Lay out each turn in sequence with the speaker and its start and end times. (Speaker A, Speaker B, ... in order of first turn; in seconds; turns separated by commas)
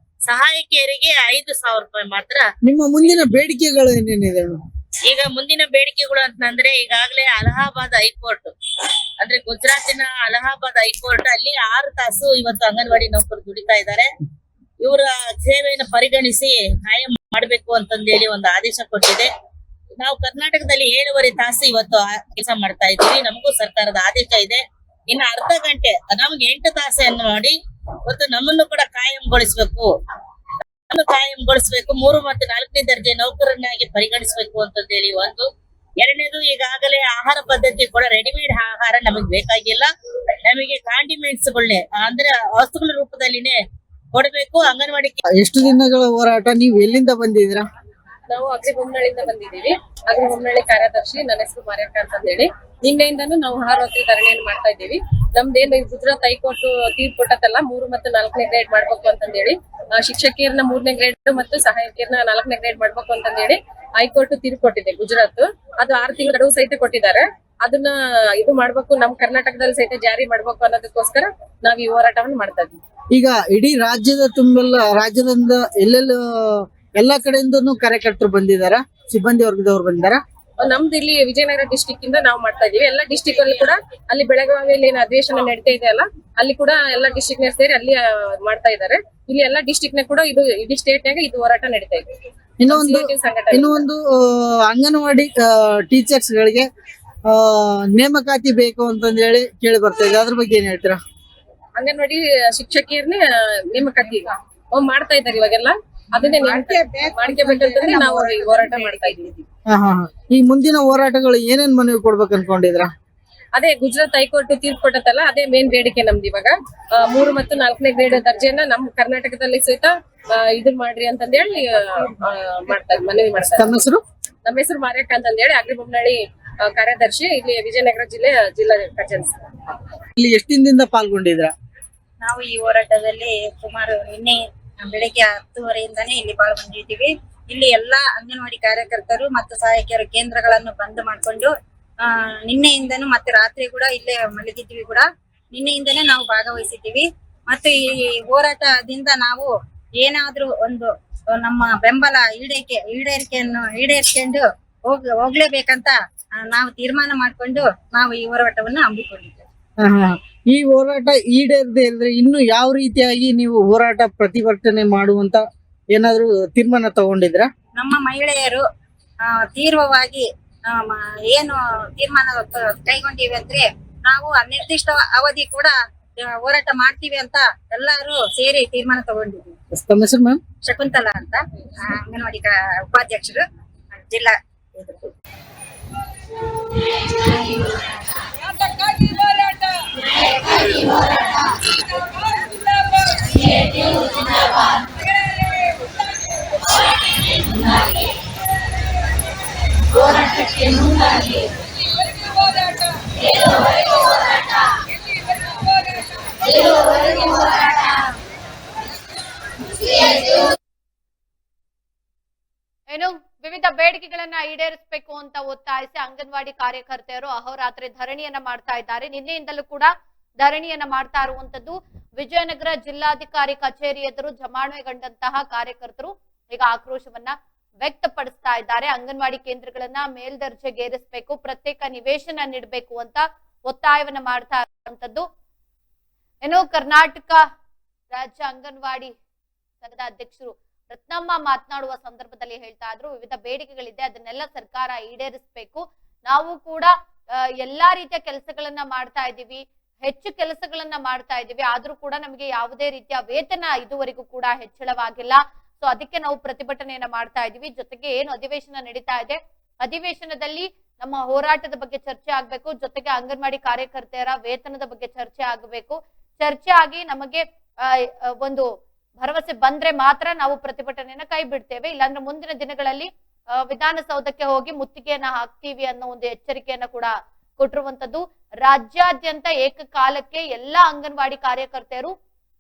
Speaker A: 0.3-2.5, Speaker B: 2.6-4.5, Speaker A: 5.0-8.5, Speaker A: 9.2-14.1, Speaker A: 14.8-19.3, Speaker A: 20.0-27.5, Speaker A: 28.1-29.9, Speaker A: 30.9-35.5, Speaker A: 36.0-39.9, Speaker A: 40.5-43.6, Speaker A: 44.1-45.2, Speaker B: 45.4-47.6, Speaker C: 48.3-72.8, Speaker B: 73.1-80.2, Speaker C: 80.6-92.0, Speaker B: 92.6-96.7, Speaker C: 92.7-93.9, Speaker B: 97.3-101.0, Speaker C: 101.8-109.4, Speaker B: 106.2-112.9, Speaker C: 113.5-123.8, Speaker B: 123.5-124.0, Speaker C: 124.5-129.4, Speaker B: 130.2-131.5, Speaker D: 132.2-141.5, Speaker D: 142.0-159.4, Speaker B: 159.8-167.5, Speaker D: 167.8-168.6, Speaker D: 169.2-179.6, Speaker B: 179.7-180.4, Speaker D: 180.7-185.0, Speaker C: 188.6-189.5, Speaker C: 193.0-193.5, Speaker C: 195.4-195.9, Speaker E: 212.9-235.3, Speaker E: 236.4-237.4, Speaker E: 238.1-239.1, Speaker E: 239.8-282.1